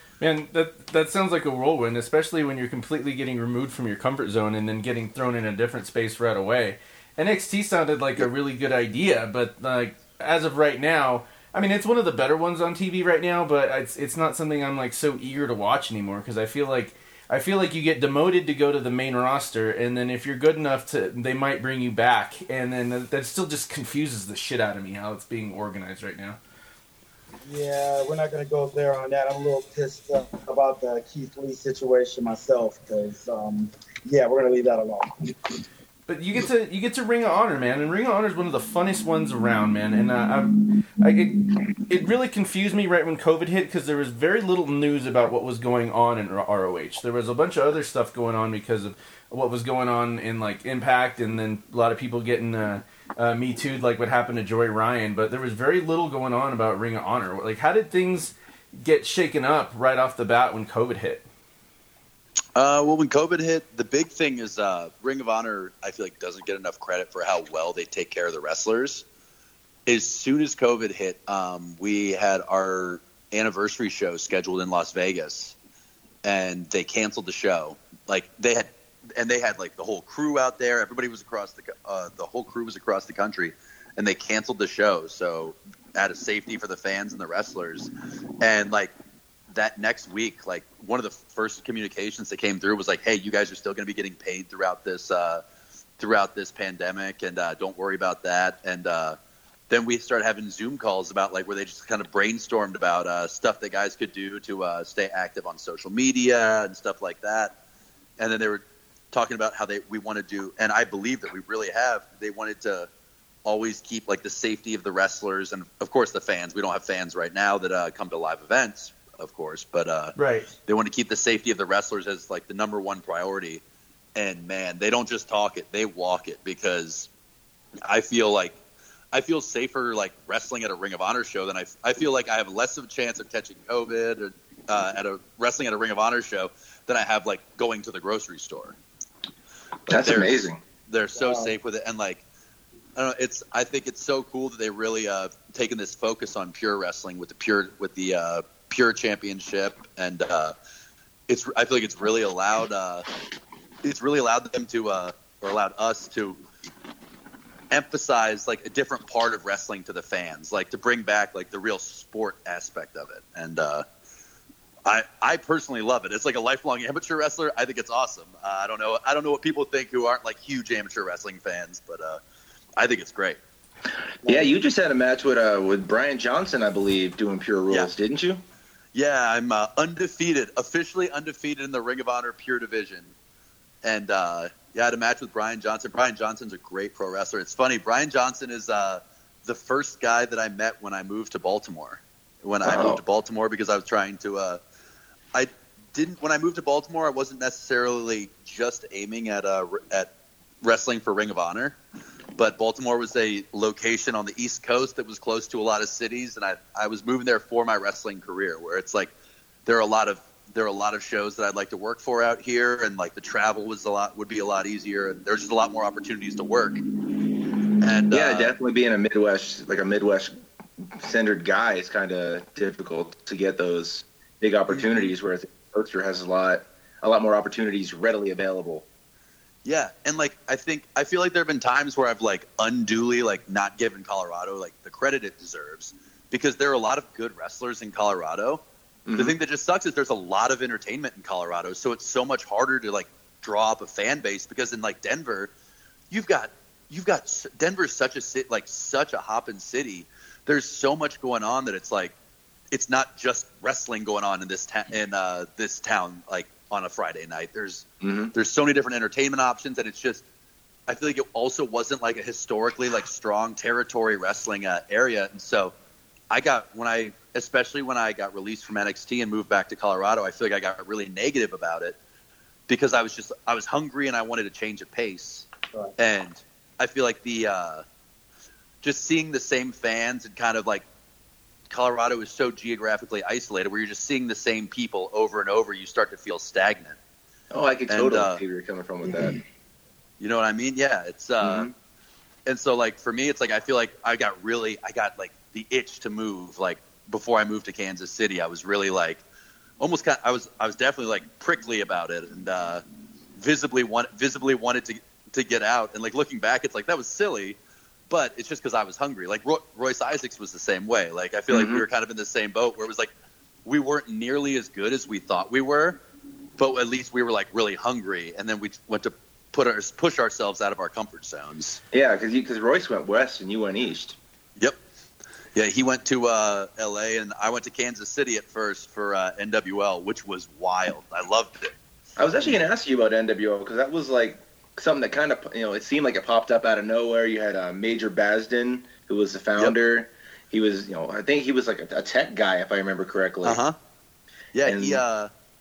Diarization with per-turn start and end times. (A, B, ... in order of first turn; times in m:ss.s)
0:00.2-0:26.4 A
0:27.4-0:35.5 B
0:36.1-1:01.2 A
1:02.6-1:09.0 C
1:09.9-1:15.6 C
1:16.2-1:28.9 C
1:29.5-1:35.4 C
1:36.0-1:39.2 C
1:39.7-1:47.6 C
1:48.2-1:52.9 C
1:53.4-2:03.6 C
2:00.2-2:00.5 A
2:04.2-2:07.1 C
2:07.8-2:08.6 C
2:09.1-2:18.8 C
2:19.9-2:20.3 C
2:19.9-2:20.6 D
2:20.9-2:22.2 C
2:23.0-2:30.5 C
2:31.3-2:33.1 C
2:33.8-2:36.4 C
2:37.7-2:43.8 C
2:44.9-2:52.2 C
2:52.8-2:53.4 C
2:54.2-2:58.4 D
2:58.9-3:03.1 C
3:03.8-3:14.6 C
3:12.6-3:13.0 D
3:15.3-3:20.1 C
3:20.6-3:21.8 C
3:22.4-3:29.1 C
3:29.7-3:36.8 C
3:37.8-3:38.5 C
3:38.1-3:40.3 D
3:40.9-3:48.9 D
3:44.7-3:45.1 C
3:49.6-3:58.6 C
3:59.1-3:59.4 D
3:59.2-4:05.5 C
4:06.1-4:12.1 C
4:12.7-4:20.2 C
4:18.0-4:18.3 D
4:20.9-4:25.7 C
4:26.3-4:32.0 C
4:32.7-4:35.5 C
4:36.0-4:37.8 C
4:38.8-4:40.8 C
4:41.7-4:47.0 C
4:47.5-4:49.4 D
4:47.9-4:48.4 C
4:50.2-4:51.7 C
4:51.4-4:51.7 D
4:52.5-4:59.2 C
4:59.8-5:02.8 C
5:03.4-5:07.6 C
5:08.1-5:13.1 C
5:11.5-5:11.8 D
5:13.6-5:16.0 C
5:16.6-5:21.8 C
5:21.9-5:24.2 D
5:25.6-5:31.8 C
5:32.2-5:43.6 D
5:43.4-5:43.8 C
5:44.6-5:45.3 C
5:44.6-5:45.0 D